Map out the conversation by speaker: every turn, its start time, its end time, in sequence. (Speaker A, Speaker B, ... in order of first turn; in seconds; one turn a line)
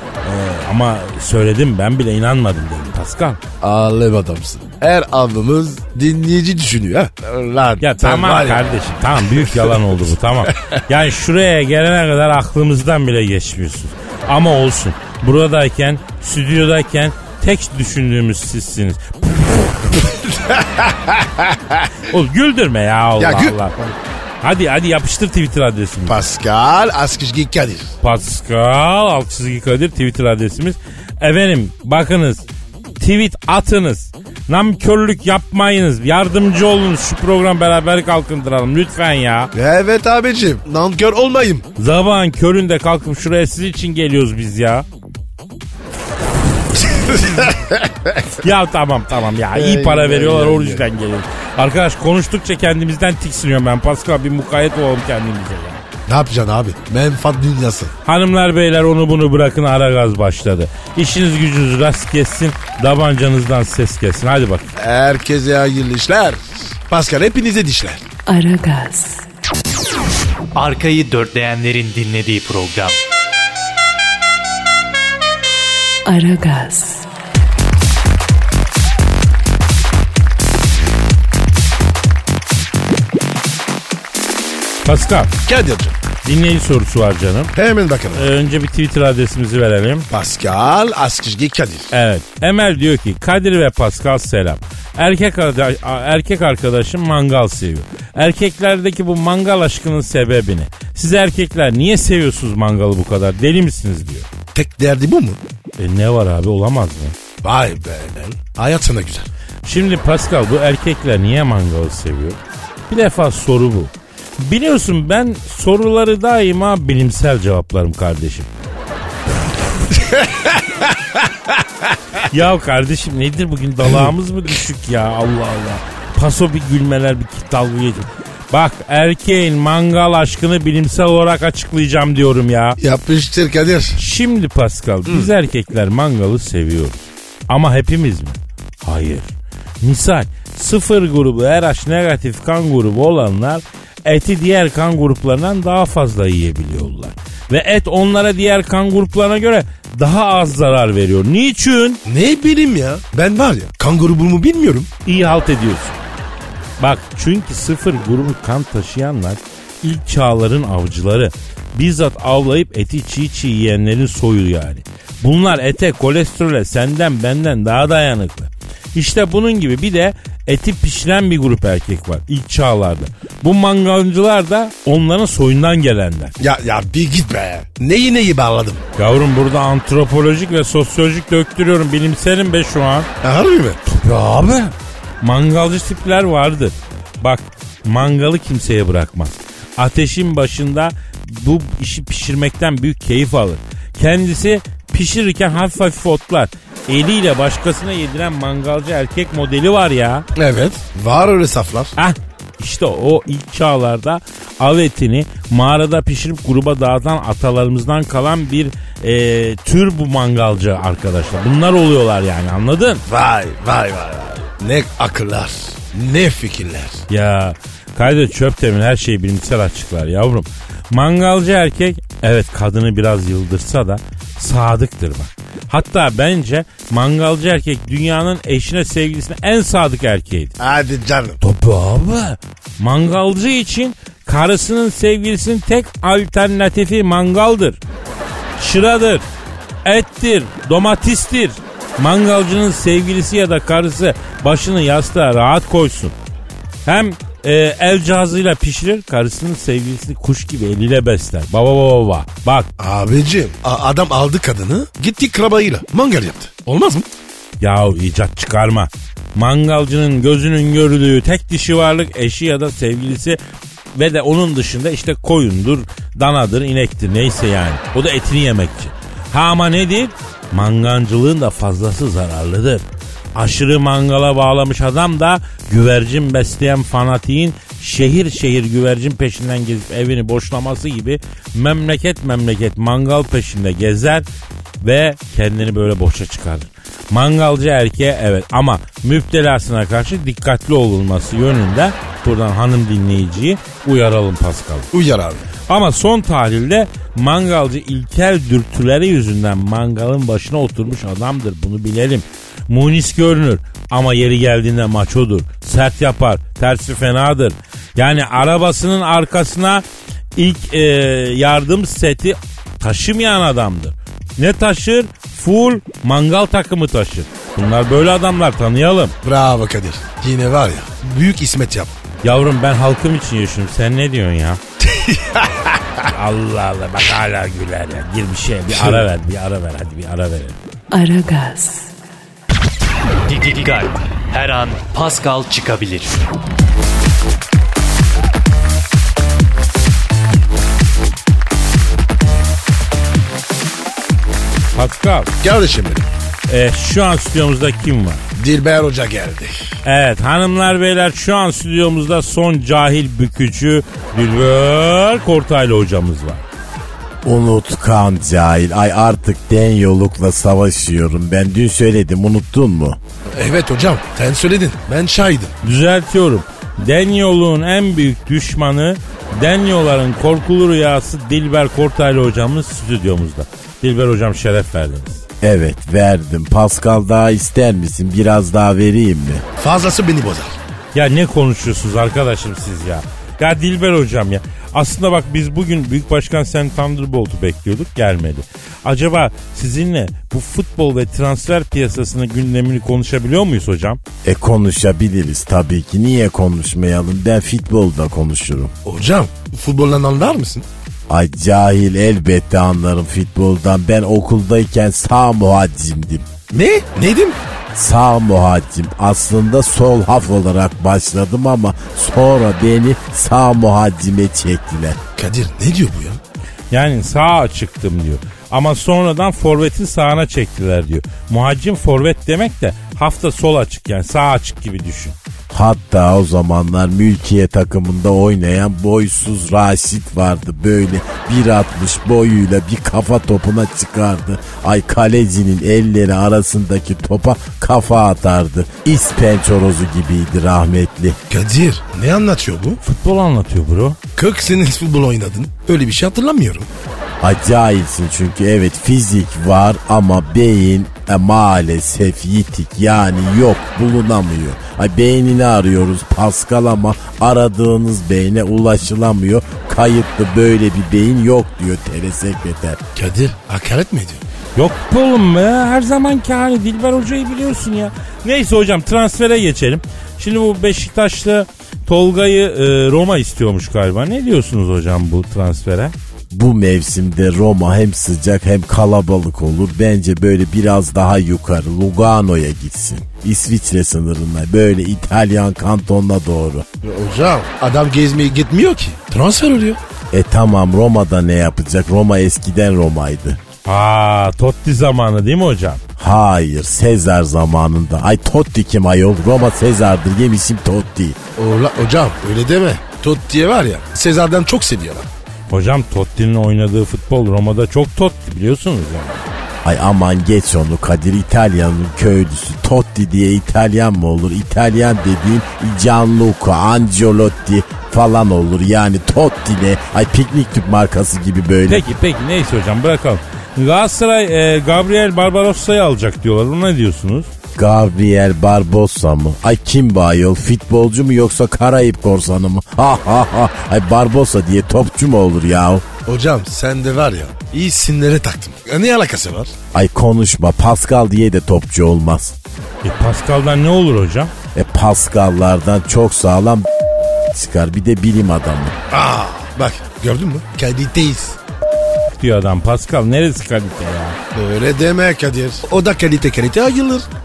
Speaker A: 0.2-3.4
Speaker B: 3.6-10.6
Speaker A: 7.8-19.6
Speaker B: 20.1-21.8
Speaker A: 22.1-23.7
Speaker B: 23.2-24.0
Speaker A: 24.4-26.2
Speaker B: 26.1-27.9
Speaker A: 28.0-32.5
Speaker A: 33.0-39.5
Speaker B: 39.5-41.7
Speaker A: 41.8-44.9
Speaker B: 46.8-48.1
Speaker A: 48.4-55.8
Speaker B: 49.5-50.8
Speaker B: 56.1-57.9
Speaker A: 58.1-64.7
Speaker B: 64.8-68.0
Speaker C: 68.3-69.2
Speaker D: 70.5-73.0
Speaker C: 76.0-77.1
Speaker A: 84.8-85.3
Speaker B: 85.5-85.9
Speaker A: 86.2-87.5
Speaker B: 87.6-88.3
Speaker A: 88.2-90.1
Speaker B: 90.1-91.9
Speaker A: 91.9-104.3
Speaker B: 104.5-105.4
Speaker A: 105.8-107.2
Speaker B: 107.4-109.3
Speaker A: 109.6-118.5
Speaker B: 120.0-120.6
Speaker A: 122.3-132.8
Speaker B: 132.8-134.0
Speaker A: 134.0-139.3
Speaker A: 139.8-152.0
Speaker B: 152.1-154.9
Speaker A: 155.1-156.0
Speaker A: 156.8-176.3
Speaker B: 176.4-178.8
Speaker A: 179.0-183.1
Speaker B: 183.2-183.8
Speaker A: 183.9-200.3
Speaker B: 200.4-201.9
Speaker A: 202.0-213.0
Speaker B: 213.1-217.1
Speaker A: 217.1-230.5
Speaker B: 230.6-231.4
Speaker A: 231.4-237.8
Speaker A: 238.6-239.2
Speaker A: 239.8-246.2
Speaker A: 246.9-252.7
Speaker B: 252.8-257.1
Speaker A: 257.6-263.4
Speaker A: 263.9-272.8
Speaker A: 273.4-284.2
Speaker A: 284.8-294.9
Speaker B: 294.9-295.5
Speaker A: 295.7-309.8
Speaker A: 310.4-319.1
Speaker B: 319.2-321.9
Speaker A: 322.2-324.6
Speaker B: 324.8-326.1
Speaker A: 326.1-330.6
Speaker B: 328.7-329.1
Speaker C: 330.9-331.9
Speaker D: 333.3-336.2
Speaker A: 344.8-345.3
Speaker B: 345.4-346.1
Speaker A: 346.5-348.2
Speaker B: 348.4-349.7
Speaker A: 349.8-356.4
Speaker E: 357.2-363.0
Speaker B: 363.3-365.5
Speaker A: 365.6-375.2
Speaker E: 375.4-379.4
Speaker B: 379.6-380.6
Speaker A: 380.9-394.0
Speaker E: 394.2-398.7
Speaker B: 398.9-400.7
Speaker E: 401.1-406.3
Speaker B: 406.5-407.4
Speaker E: 407.7-415.0
Speaker B: 415.2-416.2
Speaker A: 416.7-425.2
Speaker E: 425.5-441.2
Speaker B: 441.3-442.8
Speaker A: 442.8-444.0
Speaker B: 444.2-446.7
Speaker E: 447.2-462.8
Speaker B: 463.0-464.2
Speaker A: 464.6-475.9
Speaker E: 476.3-486.7
Speaker B: 486.8-489.8
Speaker E: 490.1-493.4
Speaker A: 493.7-495.8
Speaker E: 496.0-501.2
Speaker B: 501.4-505.1
Speaker A: 505.5-509.3
Speaker E: 509.6-521.9
Speaker A: 521.7-527.3
Speaker E: 527.6-535.9
Speaker B: 536.1-539.5
Speaker E: 539.7-542.4
Speaker A: 542.8-544.3
Speaker E: 544.5-546.7
Speaker E: 547.3-548.8
Speaker B: 548.9-551.4
Speaker A: 552.2-554.2
Speaker B: 554.3-557.1